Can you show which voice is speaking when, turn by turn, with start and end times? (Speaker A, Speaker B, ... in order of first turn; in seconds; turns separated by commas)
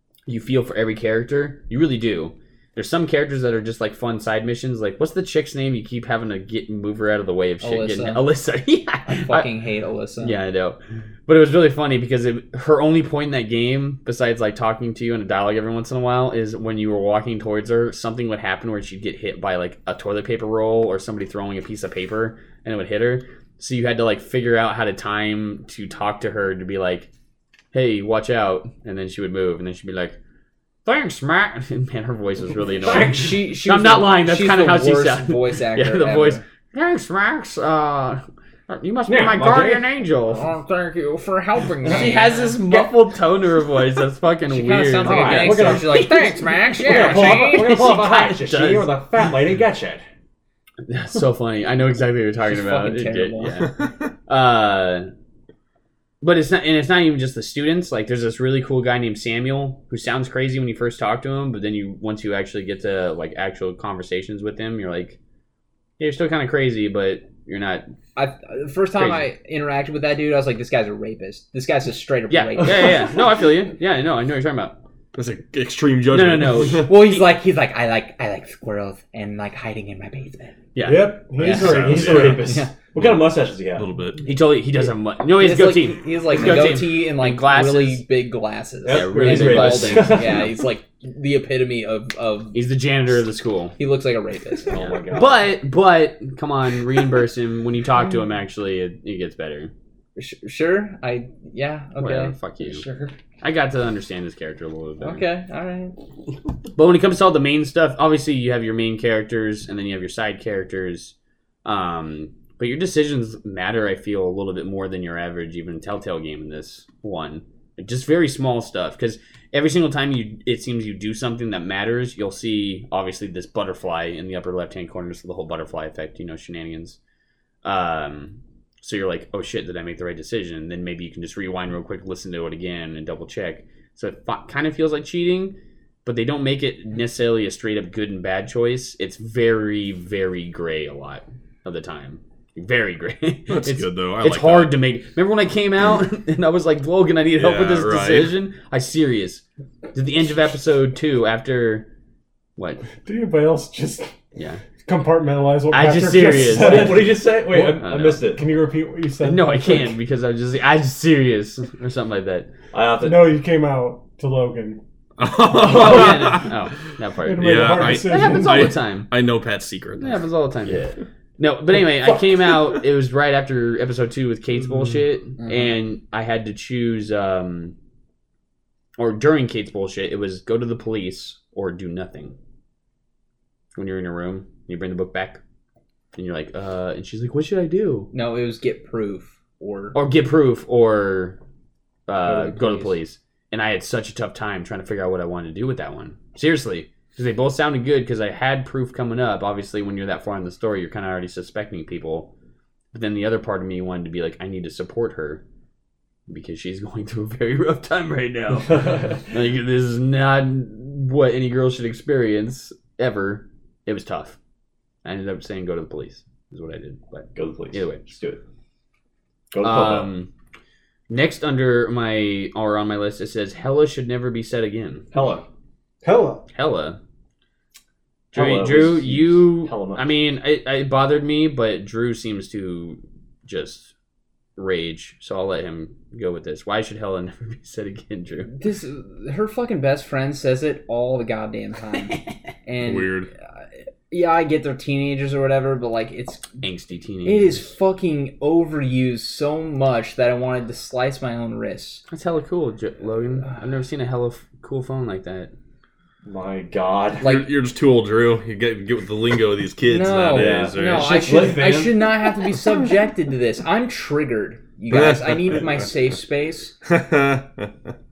Speaker A: 0.3-9.5, Speaker B: 7.6-8.3, Speaker B: 9.1-10.4, Speaker A: 10.2-27.1, Speaker A: 27.7-30.2, Speaker A: 30.9-40.5, Speaker B: 32.9-36.4, Speaker C: 32.9-33.3, Speaker C: 39.1-39.9, Speaker B: 40.3-42.8, Speaker A: 41.9-48.9, Speaker B: 44.5-47.8, Speaker C: 45.0-46.1, Speaker C: 46.8-50.0, Speaker A: 50.9-55.1, Speaker B: 52.5-53.7, Speaker A: 56.2-65.2, Speaker A: 66.0-67.9, Speaker B: 68.2-73.1, Speaker A: 69.0-69.3, Speaker A: 72.3-74.8, Speaker D: 75.2-76.9, Speaker A: 76.1-77.3, Speaker B: 76.8-80.6, Speaker A: 80.8-82.6, Speaker E: 80.8-82.5, Speaker C: 80.9-83.9, Speaker D: 81.6-83.2, Speaker D: 83.8-84.2, Speaker A: 84.2-88.0, Speaker B: 85.3-92.6, Speaker C: 88.8-90.5, Speaker A: 88.9-90.4, Speaker A: 92.5-93.8, Speaker B: 93.8-94.9, Speaker C: 94.7-95.5, Speaker A: 94.8-99.7, Speaker B: 100.2-102.3, Speaker A: 102.0-102.8, Speaker C: 102.8-103.1, Speaker A: 103.4-105.2, Speaker B: 105.0-106.0, Speaker A: 106.8-127.0, Speaker A: 127.6-151.9, Speaker D: 143.5-144.8, Speaker D: 147.4-148.4, Speaker A: 152.6-152.8, Speaker E: 153.0-154.1, Speaker A: 154.3-154.6, Speaker E: 154.8-159.9, Speaker A: 155.7-157.2, Speaker C: 156.3-158.5, Speaker A: 157.7-158.3, Speaker A: 159.2-162.5, Speaker C: 162.7-163.3, Speaker E: 163.0-164.8, Speaker D: 165.2-166.6, Speaker A: 165.6-169.1, Speaker E: 167.2-168.8, Speaker D: 167.4-170.8, Speaker A: 170.0-177.8, Speaker A: 179.0-182.3, Speaker A: 183.8-185.4, Speaker A: 186.2-188.1, Speaker B: 188.1-190.0, Speaker A: 189.9-191.4, Speaker A: 192.1-202.3, Speaker B: 192.2-192.9, Speaker A: 202.9-205.4, Speaker A: 206.3-214.4, Speaker A: 215.0-218.1, Speaker C: 217.3-218.4, Speaker C: 219.5-220.1, Speaker A: 219.6-220.3, Speaker A: 221.1-225.1, Speaker C: 225.1-225.5, Speaker E: 226.0-226.4, Speaker A: 226.5-227.0, Speaker C: 228.3-230.1, Speaker A: 228.3-233.9, Speaker A: 234.6-238.5, Speaker B: 238.5-246.6, Speaker D: 242.8-243.3, Speaker A: 246.6-247.6, Speaker B: 247.2-252.0, Speaker A: 252.1-255.5, Speaker C: 256.2-257.4, Speaker D: 257.2-261.6, Speaker B: 259.9-266.8, Speaker C: 260.3-262.1, Speaker D: 264.9-265.9, Speaker D: 266.8-267.7